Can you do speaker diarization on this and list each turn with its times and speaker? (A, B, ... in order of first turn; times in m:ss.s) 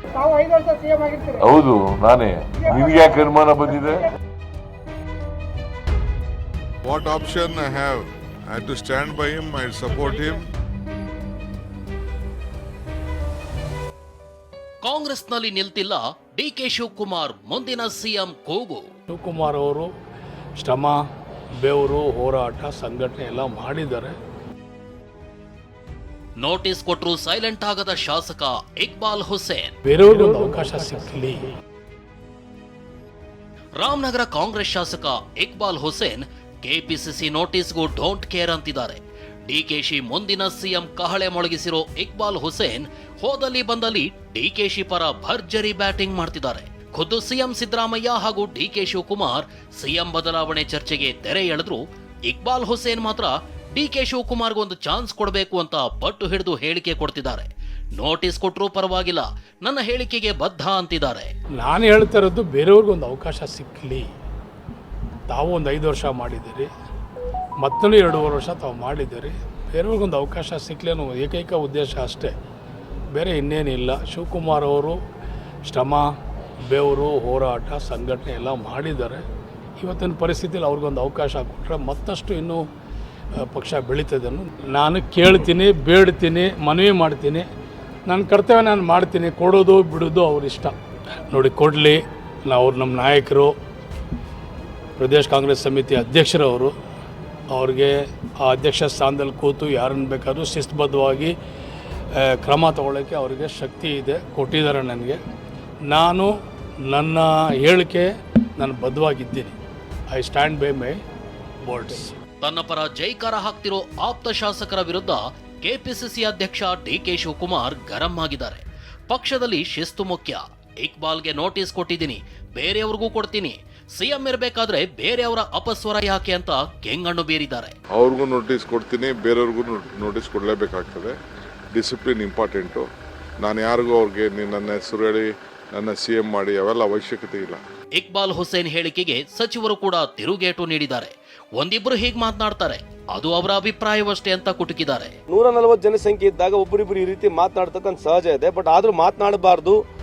0:01.4-0:04.1 A
0:06.9-0:10.4 B
0:14.8-0:18.9 C
0:19.1-0:19.9 D
0:20.6-0:21.0 D
0:21.6-0:24.2 D
0:26.4-0:29.7 C
0:29.8-0:31.6 D
0:33.8-1:01.3 C
1:01.6-1:04.1 D
1:05.3-1:06.7 D
1:07.6-1:12.3 D
1:13.1-1:15.0 D
1:15.6-1:16.1 D
1:16.7-1:19.2 D
1:19.8-1:22.6 D
1:23.4-1:27.4 D
1:28.1-1:30.8 D
1:31.3-1:33.5 D
1:35.0-1:36.8 D
1:37.5-1:41.3 D
1:42.2-1:45.2 D
1:45.9-1:46.3 D
1:46.9-1:49.6 D
1:50.1-1:51.0 D
1:51.7-1:52.2 D
1:52.4-2:07.8 C
2:08.0-2:11.1 B
2:11.7-2:12.8 B
2:13.4-2:17.6 B
2:18.0-2:25.2 C
2:25.3-2:29.8 E